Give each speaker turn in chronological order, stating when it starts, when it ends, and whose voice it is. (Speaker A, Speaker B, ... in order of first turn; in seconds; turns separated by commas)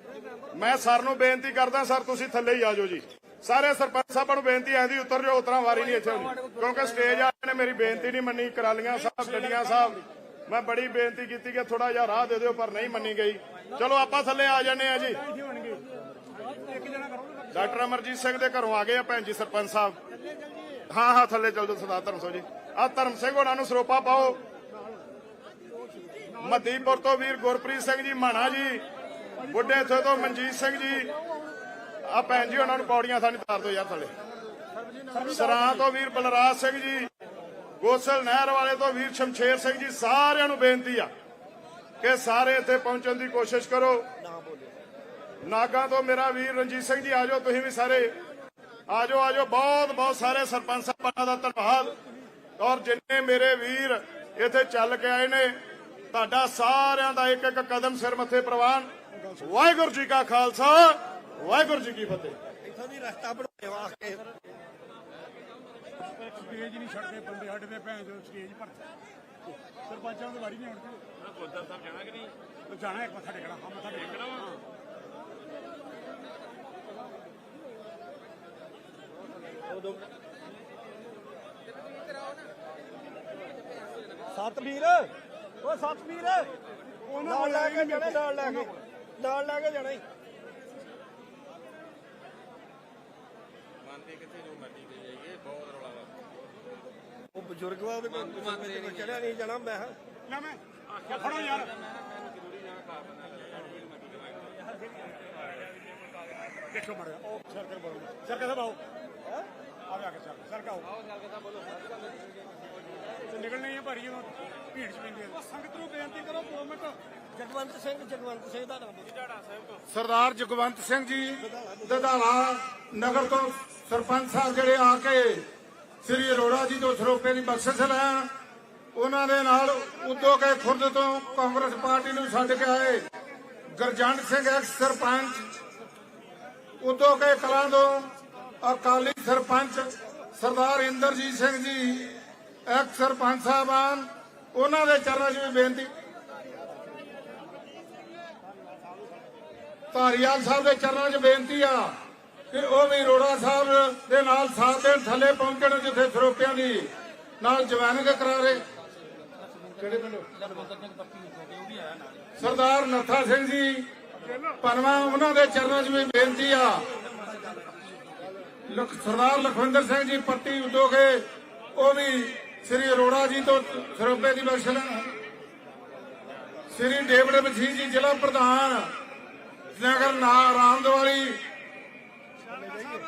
Speaker A: 0.5-15.2, Speaker B: 15.4-15.8, Speaker B: 16.6-17.4, Speaker A: 17.5-20.0, Speaker A: 20.9-24.4, Speaker A: 26.4-28.8, Speaker A: 29.5-31.1, Speaker A: 32.0-34.1, Speaker A: 35.1-37.1, Speaker A: 37.8-41.1, Speaker A: 42.0-44.1, Speaker A: 45.4-48.1, Speaker A: 48.9-52.0, Speaker A: 52.6-55.6, Speaker A: 56.1-62.4, Speaker C: 62.7-64.2, Speaker B: 66.3-68.8, Speaker B: 69.9-71.0, Speaker B: 72.7-74.3, Speaker C: 79.7-80.0, Speaker C: 84.4-85.1, Speaker C: 85.6-86.5, Speaker C: 87.2-90.0, Speaker C: 97.3-100.0, Speaker B: 100.3-100.6, Speaker B: 101.2-101.7, Speaker B: 106.7-108.8, Speaker B: 109.9-110.9, Speaker B: 113.3-116.9, Speaker C: 117.3-119.1, Speaker D: 119.9-125.5, Speaker D: 126.0-128.3, Speaker D: 128.9-133.0, Speaker D: 133.7-135.6, Speaker D: 136.8-138.1, Speaker D: 138.6-145.9, Speaker D: 149.9-152.0, Speaker D: 152.5-158.7, Speaker D: 159.8-160.4, Speaker D: 162.4-163.9, Speaker D: 164.6-166.9, Speaker D: 168.7-171.2, Speaker D: 171.8-175.1, Speaker D: 176.7-178.9, Speaker D: 179.7-181.4